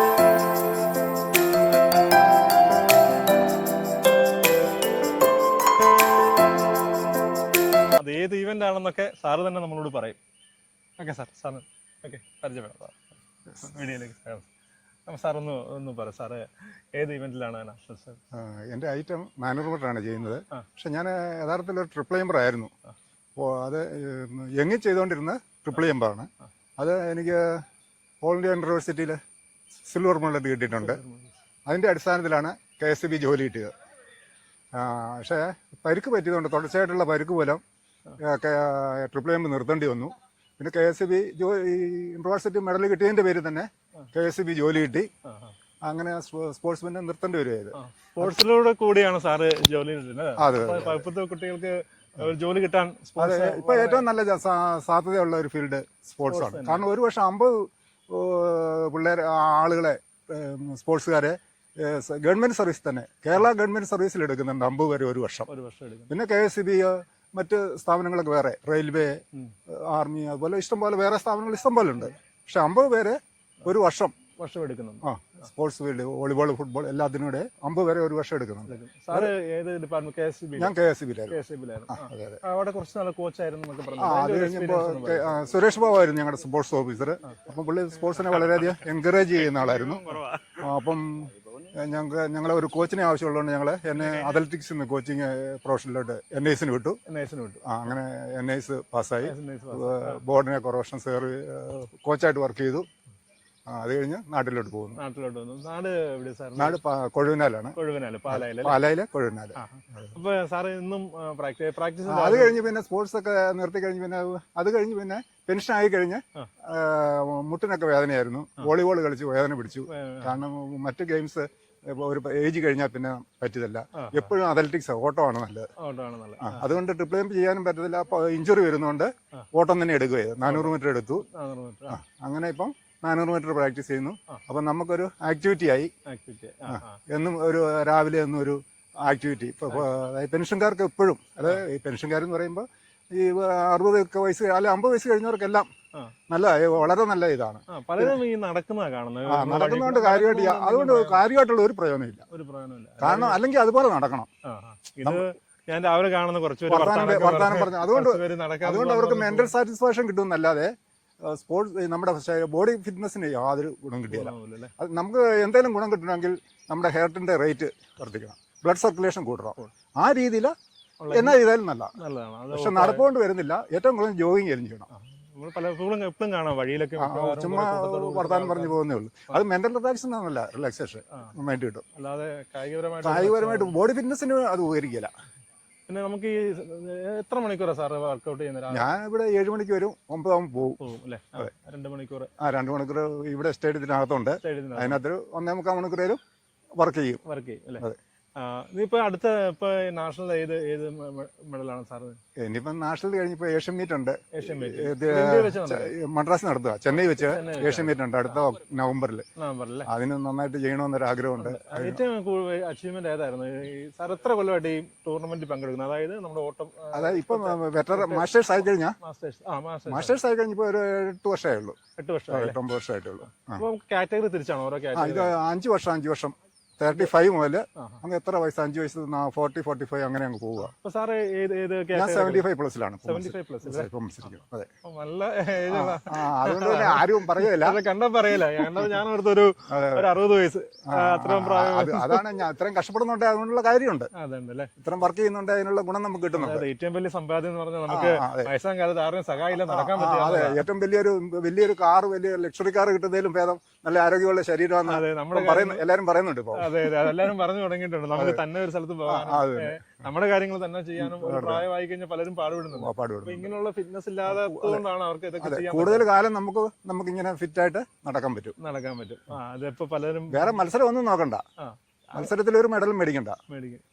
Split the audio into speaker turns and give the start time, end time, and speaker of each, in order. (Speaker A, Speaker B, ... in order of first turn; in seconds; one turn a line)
Speaker A: 8.0-10.2
Speaker A: 11.0-14.5
Speaker A: 15.1-18.2
Speaker B: 18.3-22.7
Speaker B: 23.4-27.6
Speaker B: 28.2-29.2
Speaker B: 29.9-31.0
Speaker A: 30.7-31.3
Speaker B: 31.7-33.7
Speaker B: 34.7-37.6
Speaker B: 38.2-45.1
Speaker A: 45.2-45.6
Speaker B: 45.9-48.4
Speaker A: 47.7-54.1
Speaker B: 50.4-51.1
Speaker B: 53.2-65.5
Speaker A: 56.3-56.9
Speaker A: 65.5-66.1
Speaker B: 66.1-74.2
Speaker A: 74.4-75.1
Speaker B: 75.0-79.3
Speaker A: 78.7-80.7
Speaker B: 80.6-81.4
Speaker A: 81.3-85.4
Speaker B: 81.9-82.4
Speaker B: 84.0-90.0
Speaker A: 88.2-88.7
Speaker A: 89.4-90.6
Speaker B: 90.6-97.0
Speaker A: 97.1-97.6
Speaker B: 97.7-102.9
Speaker A: 99.2-100.2
Speaker B: 103.7-105.0
Speaker A: 105.0-106.8
Speaker B: 106.6-107.8
Speaker A: 107.8-108.8
Speaker B: 108.3-110.1
Speaker A: 109.6-112.6
Speaker B: 112.0-125.7
Speaker A: 119.9-120.4
Speaker A: 124.0-124.3
Speaker A: 125.8-126.7
Speaker B: 126.4-131.2
Speaker A: 130.5-130.7
Speaker A: 131.3-132.0
Speaker B: 131.9-135.9
Speaker A: 136.1-137.0
Speaker B: 136.7-145.7
Speaker B: 146.3-148.2
Speaker A: 147.7-151.2
Speaker B: 149.3-152.2
Speaker A: 152.3-153.4
Speaker B: 153.0-154.3
Speaker A: 154.4-159.5
Speaker B: 156.7-170.5
Speaker A: 164.1-164.7
Speaker A: 171.0-171.4
Speaker B: 171.1-171.9
Speaker A: 172.0-173.1
Speaker B: 172.5-174.9
Speaker A: 174.9-178.8
Speaker B: 177.0-181.8
Speaker A: 181.9-183.7
Speaker B: 183.0-185.1
Speaker A: 185.9-188.9
Speaker B: 188.7-190.8
Speaker A: 190.8-192.3
Speaker B: 192.4-196.2
Speaker A: 194.4-195.0
Speaker B: 196.8-197.2
Speaker A: 197.2-197.9
Speaker A: 198.4-202.2
Speaker B: 202.4-209.3
Speaker A: 204.3-205.9
Speaker A: 207.2-208.0
Speaker A: 209.4-209.9
Speaker B: 209.9-212.0
Speaker A: 211.4-218.3
Speaker B: 216.9-219.0
Speaker A: 219.0-220.2
Speaker B: 219.9-221.8
Speaker A: 222.0-222.6
Speaker B: 222.3-223.6
Speaker A: 223.5-225.3
Speaker B: 224.9-230.7
Speaker A: 227.8-228.0
Speaker A: 230.6-232.5
Speaker B: 231.9-234.7
Speaker A: 233.0-234.3
Speaker A: 234.8-242.2
Speaker B: 235.7-237.8
Speaker B: 238.6-238.9
Speaker B: 239.7-240.1
Speaker B: 240.9-244.1
Speaker A: 244.1-244.7
Speaker B: 244.8-246.7
Speaker A: 246.3-250.7
Speaker B: 247.9-248.5
Speaker B: 249.5-257.3
Speaker A: 254.9-255.9
Speaker A: 256.6-266.1
Speaker B: 258.1-258.4
Speaker B: 259.1-259.8
Speaker B: 261.0-261.7
Speaker B: 262.7-263.5
Speaker B: 264.3-264.9
Speaker B: 265.4-268.6
Speaker A: 268.6-270.6
Speaker B: 270.3-271.4
Speaker A: 271.6-272.3
Speaker B: 272.1-273.4
Speaker A: 273.5-273.8